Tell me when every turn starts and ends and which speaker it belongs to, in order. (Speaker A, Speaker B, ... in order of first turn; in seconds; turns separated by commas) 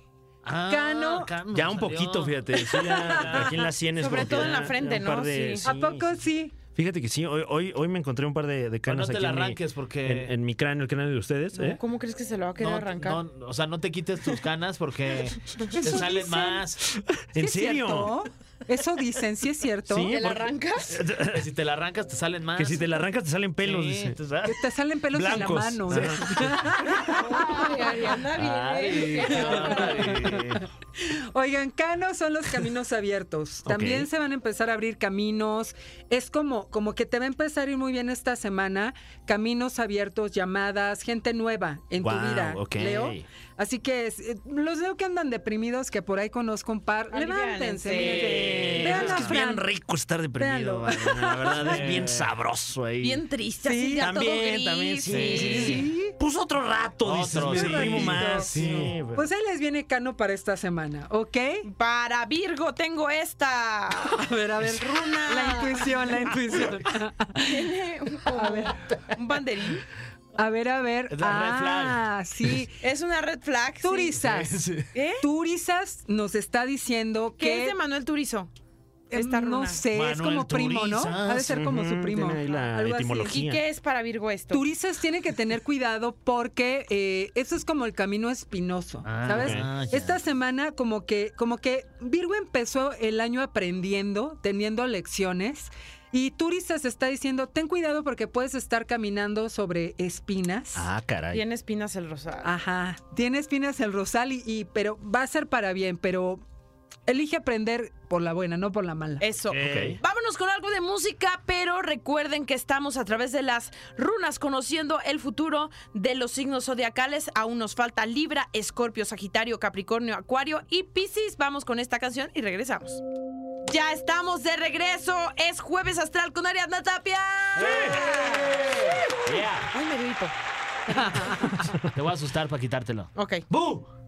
Speaker A: 0.4-3.6, Speaker B: 0.7-1.3, Speaker C: 1.5-6.1, Speaker B: 2.7-3.6, Speaker D: 4.0-5.7, Speaker B: 5.6-6.6, Speaker C: 6.7-11.8, Speaker A: 8.9-10.3, Speaker D: 11.5-13.2, Speaker A: 12.6-16.8, Speaker B: 15.7-16.7, Speaker C: 17.2-18.1, Speaker B: 17.4-20.2, Speaker C: 19.9-21.4, Speaker D: 20.1-21.0, Speaker A: 21.3-22.9, Speaker C: 22.6-24.2, Speaker A: 23.6-24.6, Speaker B: 24.4-28.2, Speaker C: 25.1-26.6, Speaker A: 25.9-26.9, Speaker D: 26.9-30.3, Speaker A: 28.4-30.6, Speaker C: 28.4-29.3, Speaker B: 29.4-49.7, Speaker C: 33.7-34.1, Speaker C: 42.0-43.3, Speaker D: 47.1-48.8, Speaker A: 47.9-49.4, Speaker C: 48.0-53.2, Speaker B: 50.4-52.1, Speaker A: 51.1-52.3, Speaker D: 53.0-55.9, Speaker B: 53.6-54.2, Speaker C: 54.0-59.3, Speaker A: 55.1-55.9, Speaker B: 55.2-56.2, Speaker A: 57.0-59.0, Speaker B: 57.4-61.7, Speaker D: 61.6-64.3, Speaker B: 64.0-67.7, Speaker D: 64.8-66.0, Speaker D: 67.5-69.8, Speaker B: 68.3-69.1, Speaker B: 70.4-72.8, Speaker A: 71.1-72.0, Speaker D: 72.8-74.1, Speaker B: 73.8-74.7, Speaker A: 74.2-74.9, Speaker D: 74.9-75.2, Speaker B: 75.2-77.8, Speaker D: 77.4-78.5, Speaker B: 79.1-83.4, Speaker D: 79.1-79.8, Speaker A: 79.9-81.5, Speaker C: 81.3-83.6, Speaker D: 83.3-84.6, Speaker B: 84.5-100.9, Speaker A: 89.0-90.2, Speaker C: 89.2-89.7, Speaker C: 100.8-101.4, Speaker D: 101.3-102.5, Speaker B: 102.4-106.4, Speaker B: 107.1-109.3, Speaker D: 109.2-123.0, Speaker C: 109.5-110.0, Speaker A: 109.5-110.0, Speaker D: 123.7-130.3, Speaker A: 127.6-129.7, Speaker C: 127.6-127.9, Speaker B: 127.9-128.1, Speaker D: 130.9-131.6, Speaker B: 131.0-131.6, Speaker A: 131.8-133.8, Speaker D: 133.2-133.4